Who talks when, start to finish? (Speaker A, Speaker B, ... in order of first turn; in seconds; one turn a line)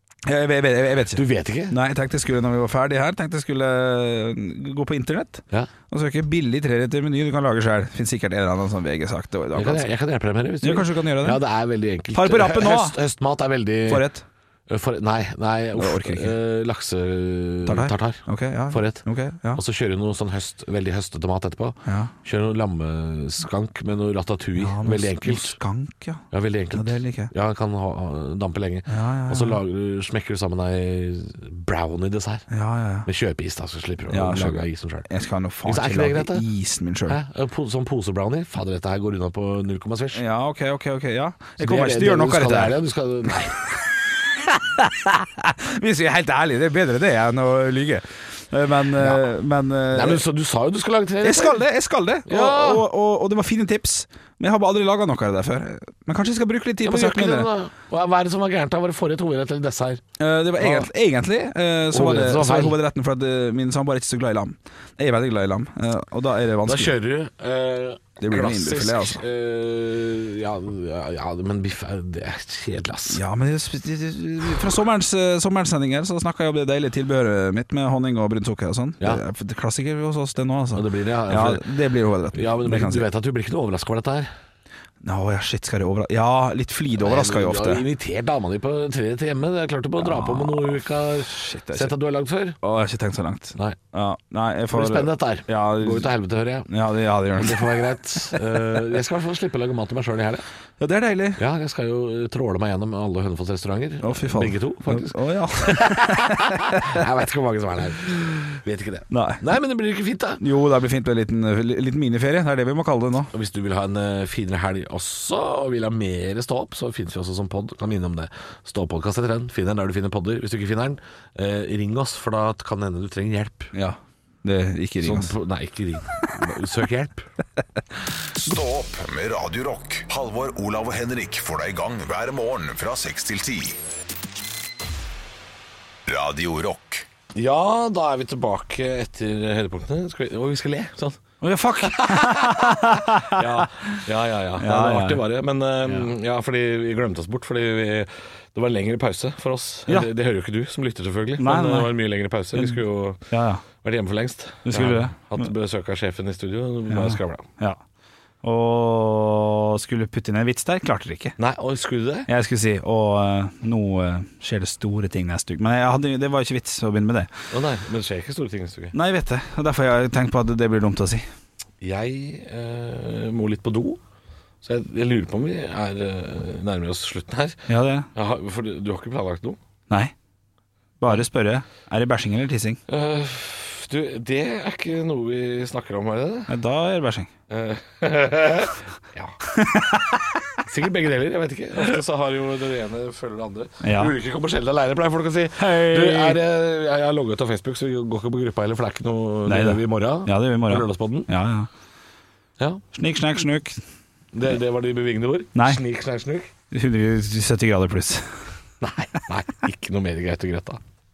Speaker A: 0.3-9.9
Speaker B: 1.1-1.8
Speaker B: 9.5-14.1
Speaker A: 10.6-11.4
Speaker A: 12.1-13.0
Speaker A: 13.9-14.2
Speaker B: 14.7-25.6
Speaker A: 15.8-16.4
Speaker A: 17.7-19.6
Speaker A: 21.9-22.1
Speaker A: 24.6-27.3
Speaker B: 26.3-32.5
Speaker A: 28.9-29.6
Speaker A: 32.5-33.1
Speaker B: 33.0-35.1
Speaker A: 34.1-37.2
Speaker B: 35.6-36.5
Speaker B: 37.1-40.2
Speaker A: 40.1-42.8
Speaker B: 41.6-43.6
Speaker A: 44.3-50.2
Speaker B: 49.0-49.2
Speaker B: 49.9-51.6
Speaker A: 51.2-57.5
Speaker B: 52.3-52.9
Speaker B: 56.8-60.0
Speaker A: 60.2-66.9
Speaker B: 60.6-60.9
Speaker B: 61.9-62.8
Speaker B: 66.7-73.2
Speaker A: 68.2-69.2
Speaker A: 73.1-83.1
Speaker B: 80.7-81.6
Speaker B: 82.3-84.3
Speaker A: 85.0-87.8
Speaker B: 87.0-92.6
Speaker A: 90.0-92.0
Speaker A: 92.6-96.1
Speaker B: 94.7-96.7
Speaker A: 96.7-97.8
Speaker B: 97.4-100.4
Speaker A: 100.8-101.4
Speaker B: 101.4-110.4
Speaker A: 104.0-107.0
Speaker A: 109.1-109.4
Speaker A: 110.4-113.3
Speaker B: 113.3-123.7
Speaker A: 123.7-125.3
Speaker B: 125.0-127.3
Speaker C: 128.4-133.8
Speaker C: 136.1-137.1
Speaker B: 137.3-141.2
Speaker A: 141.4-143.9
Speaker B: 141.8-153.3
Speaker A: 144.6-145.2
Speaker A: 145.8-146.1
Speaker A: 151.4-151.9
Speaker A: 152.6-153.6
Speaker B: 153.8-157.5
Speaker A: 154.7-155.5
Speaker A: 156.9-157.8
Speaker A: 158.4-161.4
Speaker B: 161.4-162.3
Speaker A: 162.3-167.3
Speaker B: 167.5-168.9
Speaker A: 168.9-171.2
Speaker B: 171.8-174.0
Speaker B: 174.6-179.6
Speaker A: 177.7-178.1
Speaker A: 179.9-180.1
Speaker A: 181.0-182.8
Speaker B: 182.9-186.5
Speaker A: 186.5-187.3
Speaker B: 187.5-189.4
Speaker A: 189.5-190.4
Speaker B: 190.6-201.3
Speaker A: 193.8-194.1
Speaker A: 195.6-196.4
Speaker A: 199.5-201.7
Speaker A: 202.9-203.8
Speaker B: 204.3-206.5
Speaker A: 205.6-205.8
Speaker A: 206.7-208.3
Speaker B: 208.8-210.8